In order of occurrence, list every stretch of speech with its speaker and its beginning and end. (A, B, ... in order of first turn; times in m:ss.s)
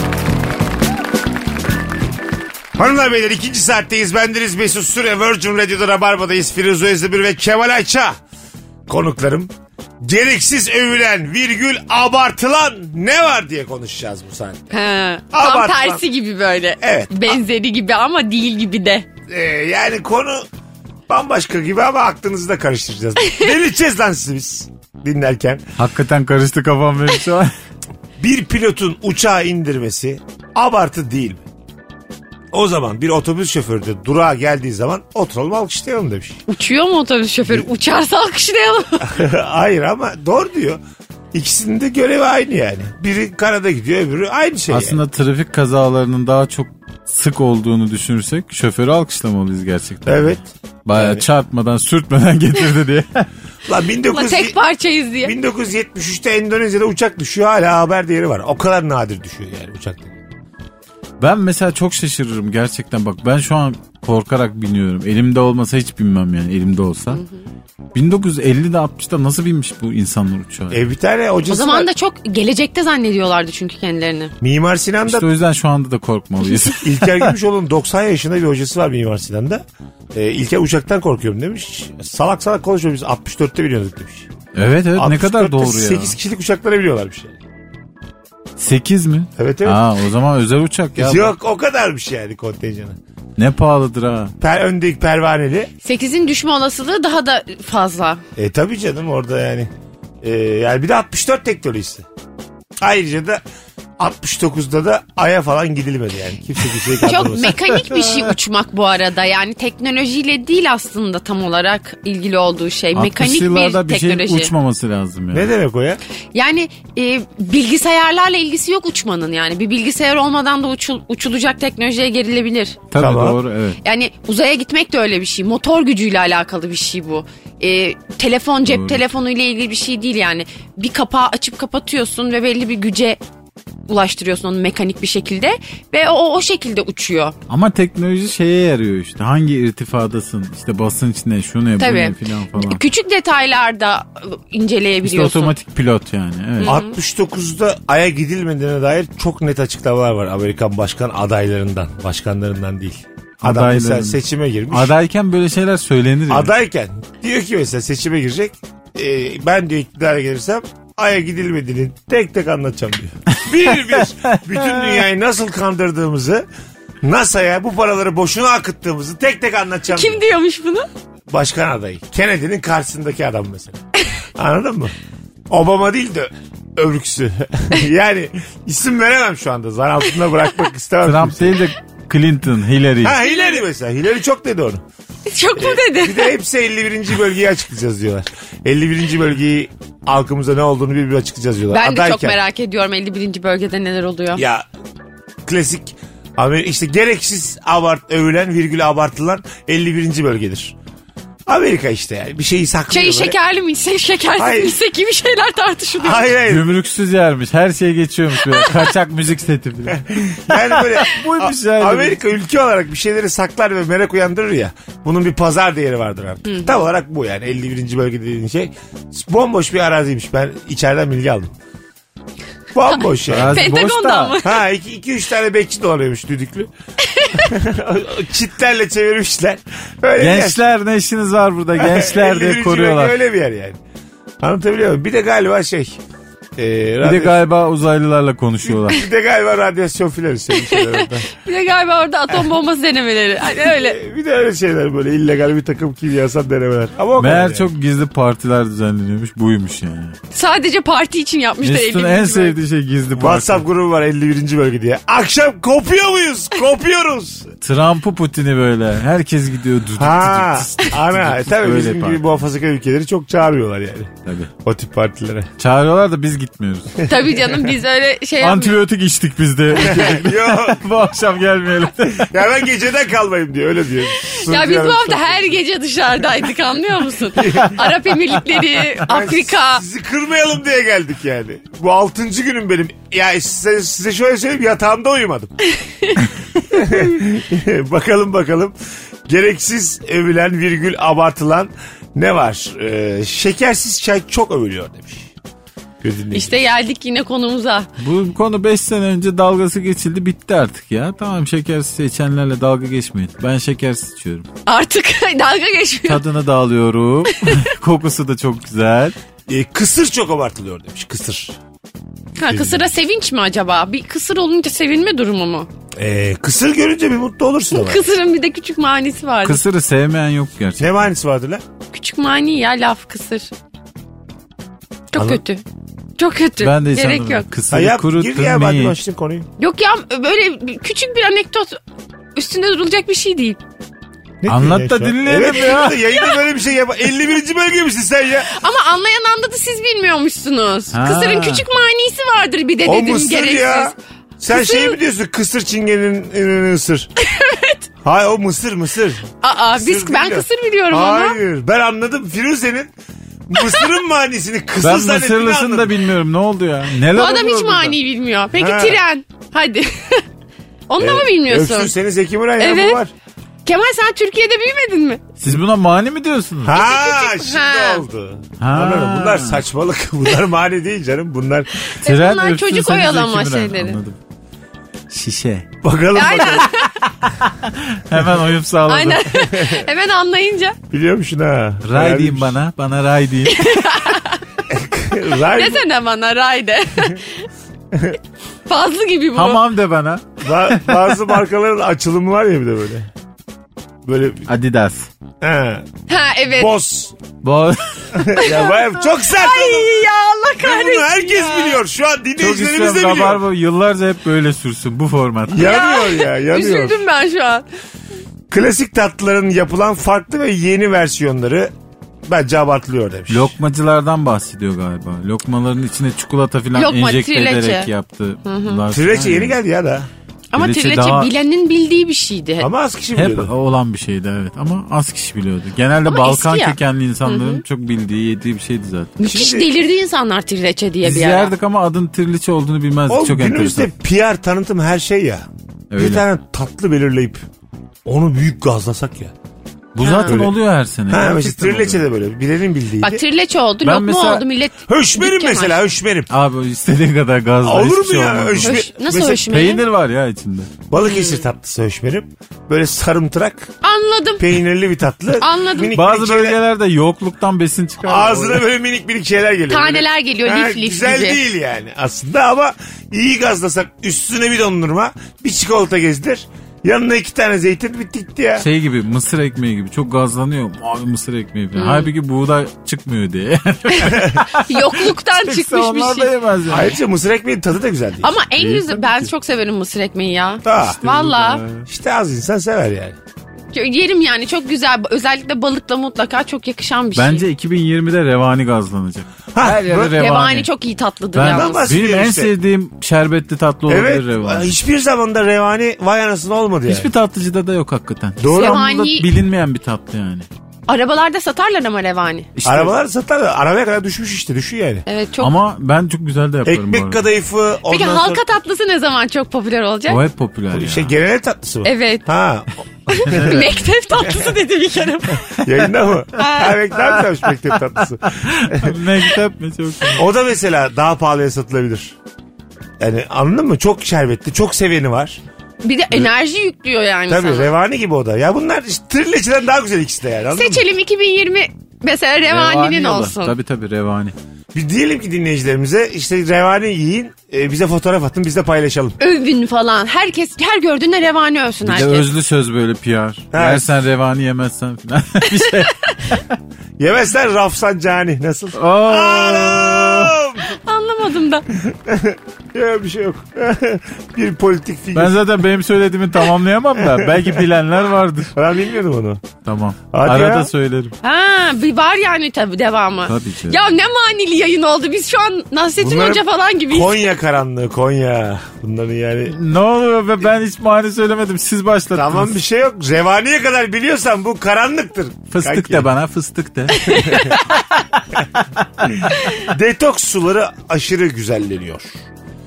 0:02.7-0:08.2 A
0:08.9-0:09.5 A
0:10.0-0:14.7 A
0:14.7-0:19.0 B
0:15.3-0:16.0 A
0:16.8-0:17.4 A
0:19.3-0:20.4 A
0:21.1-0:25.6 A
0:25.8-0:27.5 C
0:28.2-0:31.4 A
0:32.5-0:36.4 A
0:36.5-0:39.2 B
0:39.0-0:40.8 A
0:41.3-0:45.0 A
0:44.7-0:53.3 C
0:50.0-0:51.2 A
0:53.7-0:54.6 A
0:54.1-0:55.3 B
0:55.2-1:00.2 A
1:01.2-1:07.2 C
1:07.9-1:10.8 C
1:10.7-1:11.9 A
1:11.5-1:14.3 B
1:14.4-1:15.3 A
1:15.0-1:17.3 C
1:16.8-1:24.3 A
1:24.5-1:26.1 C
1:24.9-1:27.4 A
1:28.6-1:31.3 C
1:29.4-1:29.8 A
1:31.0-1:33.0 A
1:33.4-1:34.3 C
1:34.4-1:35.7 A
1:35.8-1:38.2 B
1:38.4-1:39.7 A
1:40.2-1:42.0 A
1:42.8-1:43.4 A
1:44.0-1:47.6 A
1:47.0-1:54.5 B
1:52.9-1:55.5 C
1:55.3-1:56.0 A
1:56.3-2:02.8 B
2:02.9-2:03.8 C
2:03.0-2:03.4 A
2:03.8-2:13.2 B
2:08.7-2:09.0 C
2:13.9-2:17.4 B
2:17.5-2:22.8 C
2:21.8-2:25.5 B
2:25.0-2:26.8 C
2:26.6-2:26.9 B
2:26.6-2:34.9 A
2:33.4-2:36.5 C
2:36.3-2:46.4 A
2:43.5-2:44.4 C
2:47.0-2:50.3 A
2:49.9-2:50.9 B
2:51.3-2:53.8 A
2:54.3-2:54.9 A
2:55.5-3:01.6 A
3:01.0-3:03.2 C
3:03.0-3:04.8 A
3:03.2-3:03.6 B
3:05.2-3:06.3 B
3:05.6-3:12.4 A
3:11.7-3:14.4 B
3:14.3-3:14.7 A
3:15.4-3:20.7 A
3:21.5-3:23.4 A
3:22.9-3:26.3 B
3:24.4-3:24.8 A
3:26.0-3:26.7 A
3:26.4-3:32.2 C
3:29.9-3:41.5 A
3:42.7-3:43.7 A
3:43.3-3:44.4 C
3:43.5-3:44.6 B
3:44.4-3:46.7 A
3:47.0-3:47.5 B
3:47.3-3:50.6 A
3:50.2-3:53.2 C
3:51.8-3:53.8 A
3:54.4-3:56.0 A
3:56.6-3:57.4 A
3:57.0-3:59.0 C
3:58.6-4:01.3 A
4:00.5-4:04.0 B
4:03.6-4:07.7 A
4:07.2-4:10.2 C
4:10.3-4:12.6 B
4:11.6-4:13.6 C
4:13.2-4:17.5 A
4:17.6-4:22.2 C
4:20.0-4:25.5 A
4:24.2-4:24.5 C
4:25.6-4:27.0 C
4:27.0-4:28.8 B
4:28.4-4:32.3 C
4:29.8-4:30.9 A
4:32.0-4:35.6 A
4:34.2-4:39.8 B
4:37.3-4:37.8 A
4:39.0-4:45.5 A
4:45.7-4:46.3 B
4:46.7-4:48.8 A
4:49.3-4:55.3 A
4:56.0-4:56.6 A
4:56.3-4:57.9 B
4:58.0-5:04.5 C
5:04.6-5:06.2 B
5:06.0-5:09.2 C
5:07.4-5:07.6 B
5:09.5-5:11.6 A
5:12.4-5:15.7 B
5:12.5-5:12.8 A
5:16.0-5:18.0 A
5:17.7-5:19.6 B
5:19.4-5:20.9 C
5:20.8-5:21.6 A
5:21.9-5:23.5 B
5:25.1-5:25.6 B
5:25.2-5:25.4 A
5:26.2-5:27.5 B
5:26.6-5:28.9 C
5:27.7-5:29.5 A
5:29.6-5:31.8 B
5:32.3-5:33.6 B
5:34.4-5:38.5 A
5:34.4-5:36.0 C
5:38.5-5:43.9 B
5:40.9-5:41.6 C
5:42.8-5:47.1 A
5:44.5-5:45.0 B
5:47.2-5:47.8 B
5:48.0-5:52.9 A
5:49.4-5:51.4 B
5:53.5-5:55.9 A
5:54.8-5:58.0 C
5:57.0-6:00.2 B
5:58.5-5:59.0 A
6:00.9-6:01.9 B
6:01.0-6:03.1 A
6:02.6-6:03.0 B
6:03.6-6:05.2 B
6:05.4-6:06.8 C
6:06.6-6:11.9 A
6:06.7-6:08.0 B
6:08.6-6:09.6 C
6:11.8-6:14.0 B
6:12.0-6:14.2 C
6:15.1-6:15.7 C
6:15.8-6:16.8 A
6:16.1-6:17.0 B
6:17.5-6:19.3 C
6:18.9-6:20.8 B
6:19.4-6:19.8 A
6:20.9-6:22.6 A
6:21.8-6:24.0 C
6:23.5-6:24.4 B
6:24.7-6:25.8 A
6:25.5-6:27.5 B
6:27.9-6:28.2 A
6:28.7-6:29.6 B
6:29.3-6:31.2 C
6:30.4-6:33.1 A
6:34.0-6:34.5 A
6:34.5-6:35.1 C
6:35.4-6:35.8 A
6:36.1-6:36.7 B
6:36.5-6:37.2 A
6:37.4-6:38.4 C
6:38.1-6:43.4 A
6:38.4-6:38.7 B
6:39.2-6:41.8 B
6:42.4-6:45.8 C
6:45.5-6:47.0 A
6:45.6-6:47.7 B
6:48.5-6:51.7 A
6:52.2-6:53.5 A
6:53.3-6:59.6 C
6:56.7-6:57.9 B
6:58.4-6:58.8 B
6:58.9-7:00.1 A
7:00.5-7:02.7 B
7:00.6-7:01.3 C
7:02.6-7:03.5 A
7:03.2-7:09.2 C
7:06.1-7:07.6 B
7:09.2-7:11.5 B
7:09.2-7:09.6 A
7:11.0-7:13.9 C
7:13.1-7:17.4 A
7:15.9-7:16.2 C
7:18.0-7:19.3 A
7:19.9-7:22.0 C
7:20.0-7:20.4 B
7:20.2-7:20.6 A
7:21.1-7:23.2 A
7:23.0-7:25.8 B
7:23.8-7:24.4 C
7:24.9-7:26.3 A
7:26.3-7:28.8 C
7:27.6-7:29.5 A
7:28.6-7:29.8 B
7:29.5-7:30.7 C
7:30.9-7:33.7 A
7:31.0-7:31.4 B
7:33.8-7:34.5 B
7:34.4-7:36.6 A
7:35.4-7:35.9 B
7:35.9-7:38.6 C
7:38.0-7:48.7 A
7:39.7-7:41.4 B
7:48.6-7:57.0 C
7:51.7-7:52.1 B
7:53.9-7:56.3 B
7:56.7-7:58.3 A
7:58.2-8:01.6 B
7:58.6-7:59.3 C
8:00.6-8:01.0 A
8:01.0-8:01.8 C
8:01.8-8:03.2 A
8:03.7-8:07.4 B
8:07.1-8:10.7 C
8:09.5-8:10.0 A
8:09.6-8:11.8 B
8:11.3-8:14.8 C
8:11.4-8:12.5 A
8:13.9-8:17.1 A
8:16.9-8:20.4 C
8:18.4-8:18.8 A
8:18.5-8:19.3 B
8:20.9-8:22.5 B
8:22.5-8:22.9 C
8:22.6-8:25.0 A
8:25.0-8:25.5 B
8:25.4-8:27.2 C
8:26.6-8:28.4 A
8:27.9-8:30.2 B
8:30.1-8:31.1 C
8:30.7-8:33.6 A
8:31.8-8:32.2 B
8:33.1-8:35.6 B
8:33.2-8:33.8 C
8:35.4-8:39.0 A
8:36.4-8:36.8 B
8:38.3-8:40.2 C
8:40.1-8:42.2 A
8:43.0-8:45.4 A
8:45.8-8:47.7 B
8:47.3-8:50.8 A
8:50.5-8:53.6 B
8:52.4-8:54.3 C
8:54.7-8:59.2 A
8:59.2-9:02.3 B
9:01.8-9:06.5 C
9:03.5-9:03.9 A
9:05.5-9:06.4 B
9:07.0-9:10.8 A
9:08.7-9:10.3 C
9:10.7-9:11.6 B
9:11.7-9:15.4 A
9:15.1-9:18.5 C
9:17.0-9:17.6 A
9:18.5-9:19.4 A
9:19.6-9:21.1 C
9:20.1-9:20.7 A
9:21.2-9:27.2 B
9:23.3-9:23.8 C
9:26.0-9:29.6 A
9:29.5-9:32.6 C
9:32.1-9:36.1 A
9:35.5-9:39.5 C
9:36.9-9:37.6 B
9:37.0-9:37.6 A
9:39.2-9:42.2 A
9:39.3-9:39.6 B